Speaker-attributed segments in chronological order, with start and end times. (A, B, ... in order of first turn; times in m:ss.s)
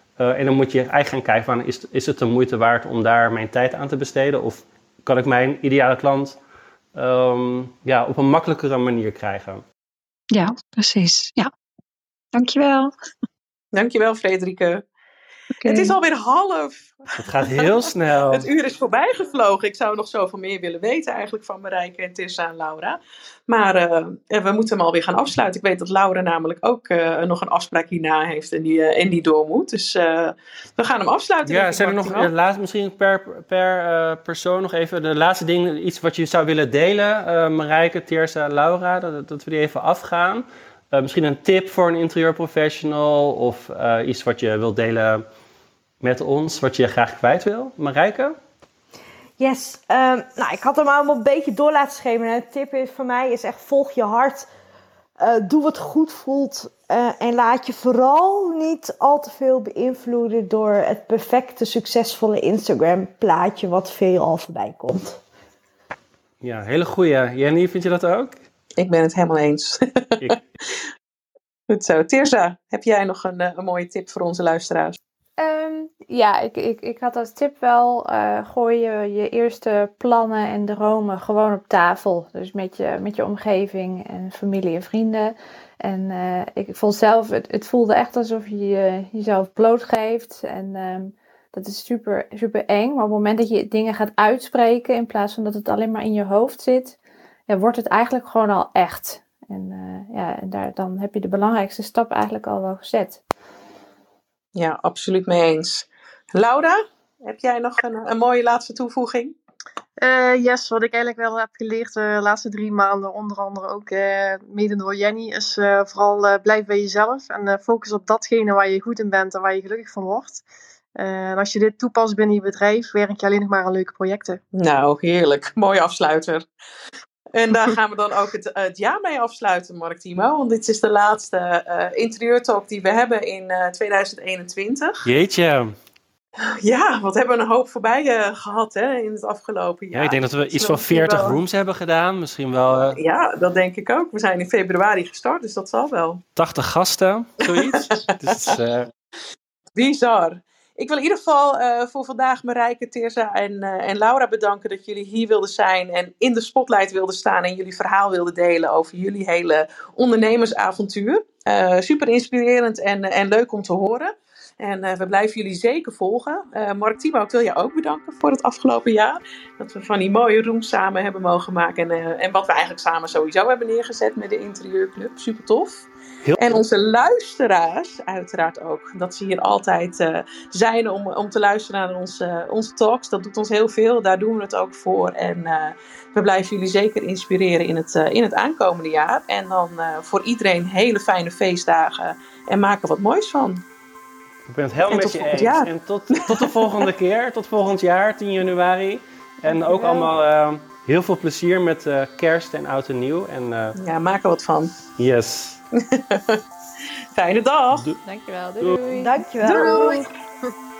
0:00.2-0:06.4 A
0:06.9-0:09.6 A
0:10.3-0:11.5 B
0:12.3-0:12.9 B
0:13.7-0:14.8 C
0:15.6-0:16.0 B
0:15.6-0:32.3 C
0:17.1-0:18.5 A
0:31.4-0:45.2 A
0:46.0-0:48.4 A
0:49.4-0:54.5 D
0:55.2-1:05.2 D
1:06.4-1:08.4 A
1:08.8-1:10.7 C
1:11.7-1:15.0 C
1:15.4-1:43.2 E
1:44.5-1:49.3 C
1:50.0-2:00.4 F
2:01.0-2:04.4 F
2:04.6-2:06.4 C
2:07.3-2:15.1 C
2:15.0-2:15.7 A
2:16.4-2:21.4 C
2:19.9-2:23.0 A
2:22.9-2:26.2 C
2:26.4-2:28.9 A
2:27.4-2:28.5 C
2:29.7-2:55.9 C
2:56.2-2:56.5 A
2:56.4-3:13.6 C
3:14.5-3:23.7 A
3:14.9-3:16.5 C
3:23.8-3:24.8 C
3:25.0-3:25.6 A
3:25.8-3:26.4 C
3:27.1-3:27.9 C
3:27.7-3:28.0 A
3:28.0-3:29.2 E
3:28.9-3:30.0 D
3:29.4-3:30.1 F
3:29.5-3:30.0 C